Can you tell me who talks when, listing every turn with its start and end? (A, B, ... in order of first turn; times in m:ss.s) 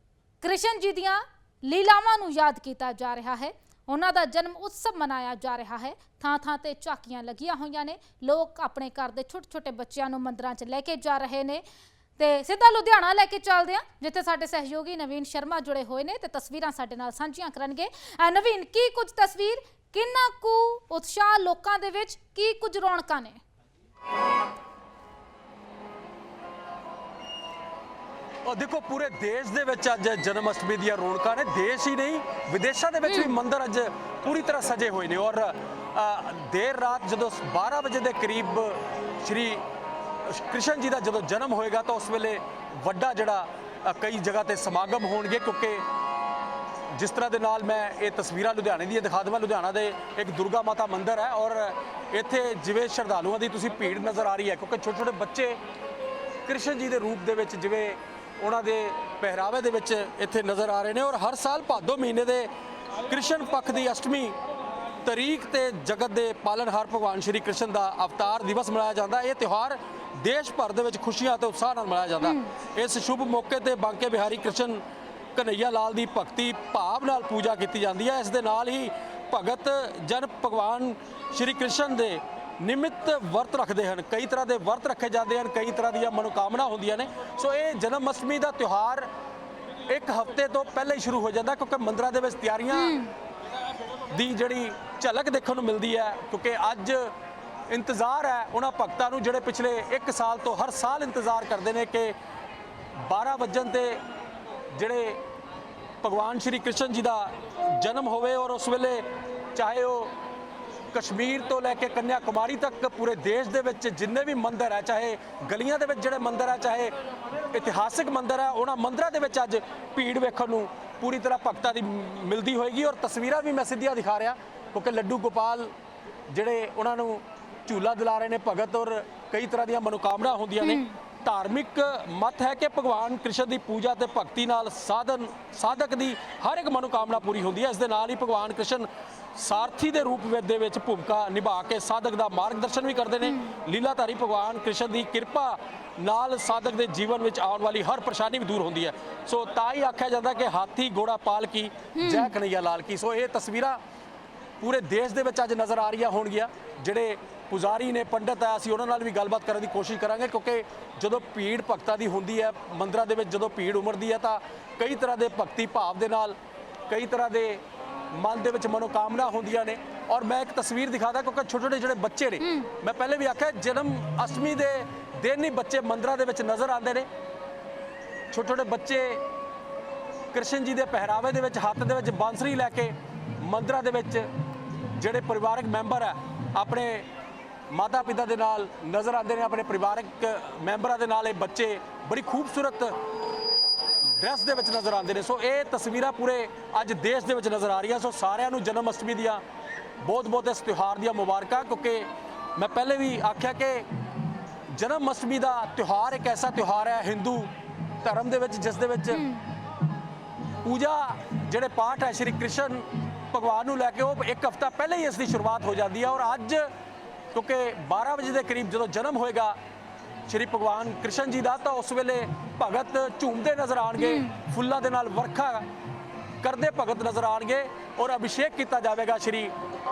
0:00.4-0:11.6 A
0:12.2-0:23.4 A
0:28.4-0:39.6 B
0:33.1-0:33.3 A
0:40.3-0:45.8 B
0:46.9-0:55.6 B
0:56.5-1:02.5 B
1:03.1-1:04.4 B
1:05.0-1:14.8 B
1:12.2-1:12.5 A
1:15.4-1:29.1 B
1:29.9-1:33.0 B
1:32.7-1:33.1 A
1:34.1-1:37.1 B
1:37.7-1:42.2 B
1:43.1-1:44.0 B
1:44.7-1:45.2 B
1:46.0-1:49.0 B
1:49.6-1:50.1 B
1:50.9-1:56.9 B
1:57.5-2:05.7 B
2:06.3-2:33.8 B
2:10.6-2:10.9 A
2:23.2-2:23.5 A
2:32.0-2:32.3 A
2:34.6-2:46.4 B
2:46.9-2:57.1 B
2:52.4-2:52.7 A
2:58.3-2:59.2 B
3:00.3-3:04.3 B
3:05.0-3:07.1 B
3:07.7-3:13.0 B
3:14.2-3:19.4 B
3:20.0-3:23.9 B
3:24.7-3:27.5 B
3:28.0-3:29.2 B
3:29.1-3:29.4 A
3:30.6-3:36.7 B
3:37.3-3:39.6 B
3:40.3-3:45.7 B
3:44.0-3:44.4 A
3:46.4-3:49.5 B